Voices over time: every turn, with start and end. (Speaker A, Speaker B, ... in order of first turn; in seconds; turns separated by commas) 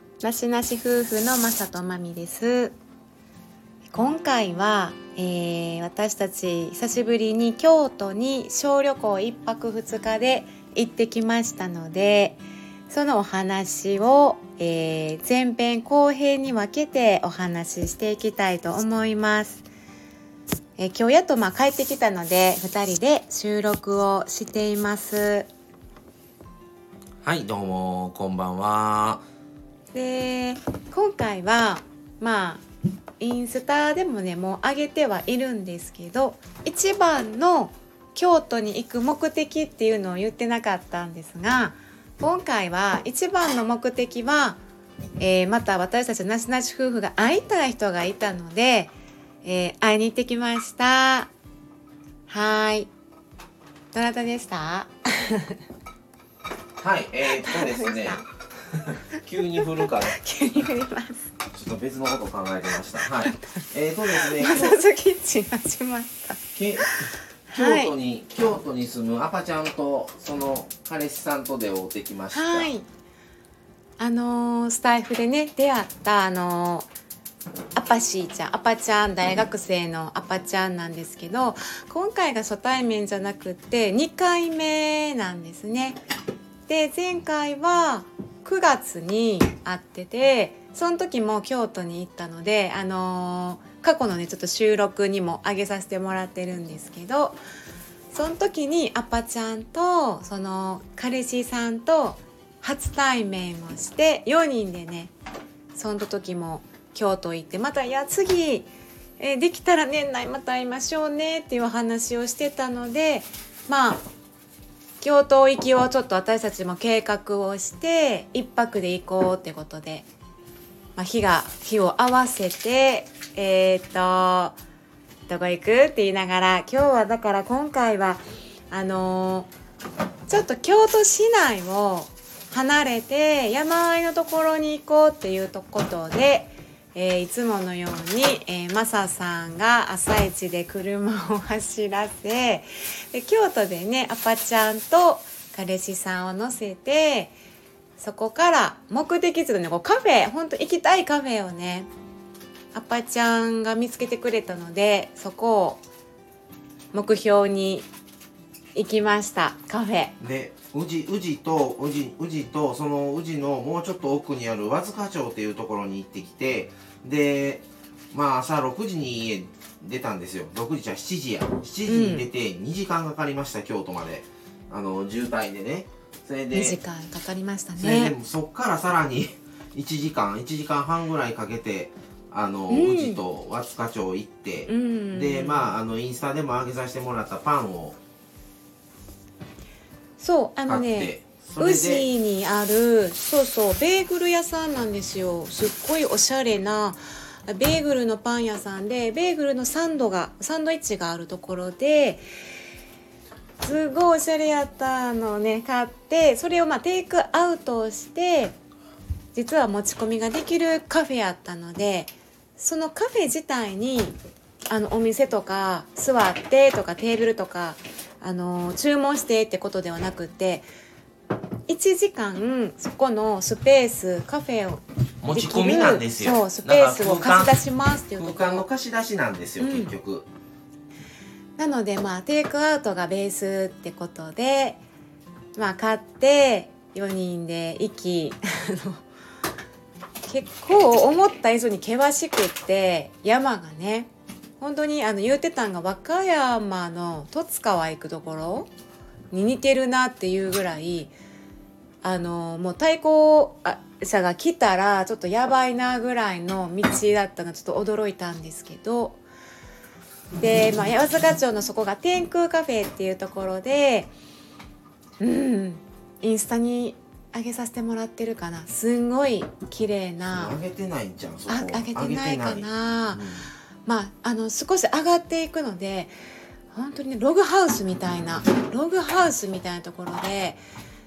Speaker A: 0.2-2.7, Speaker A: 3.9-19.6, Speaker A: 20.8-25.5, Speaker B: 27.2-29.2, Speaker A: 29.9-32.6, Speaker A: 33.2-44.6, Speaker A: 45.2-48.9, Speaker A: 49.4-51.3, Speaker A: 52.3-52.9, Speaker A: 53.9-55.6, Speaker B: 56.8-58.2, Speaker A: 57.3-58.2, Speaker B: 58.8-60.1, Speaker A: 59.6-61.3, Speaker B: 61.5-64.8, Speaker A: 63.0-63.6, Speaker A: 64.1-67.9, Speaker B: 66.5-66.9, Speaker B: 67.5-72.7, Speaker A: 72.3-72.9, Speaker A: 74.0-76.9, Speaker A: 77.7-86.0, Speaker A: 86.7-97.4, Speaker A: 98.1-105.1, Speaker A: 105.7-108.7, Speaker A: 109.2-114.0, Speaker A: 115.0-120.1, Speaker A: 121.0-124.6, Speaker A: 125.3-129.5, Speaker A: 130.3-147.3, Speaker A: 148.0-151.9, Speaker A: 152.7-155.8, Speaker A: 156.9-157.9, Speaker A: 158.7-160.1, Speaker B: 160.2-176.8, Speaker A: 171.9-172.3, Speaker A: 176.5-178.1, Speaker B: 177.8-188.0, Speaker A: 182.7-183.2, Speaker A: 184.7-185.7, Speaker A: 190.2-202.2, Speaker B: 190.7-192.1, Speaker A: 203.6-208.5, Speaker A: 209.3-214.2, Speaker A: 214.7-220.6, Speaker A: 221.7-228.6, Speaker B: 225.2-227.6, Speaker B: 228.2-230.3, Speaker A: 229.6-229.9, Speaker A: 231.6-234.8, Speaker A: 235.6-239.0, Speaker A: 240.2-244.1, Speaker A: 244.6-248.7, Speaker A: 249.3-251.1, Speaker A: 252.0-259.2, Speaker A: 260.4-264.1, Speaker A: 265.2-270.6, Speaker B: 270.3-273.5, Speaker A: 271.5-273.2, Speaker A: 273.9-276.1, Speaker A: 276.7-280.6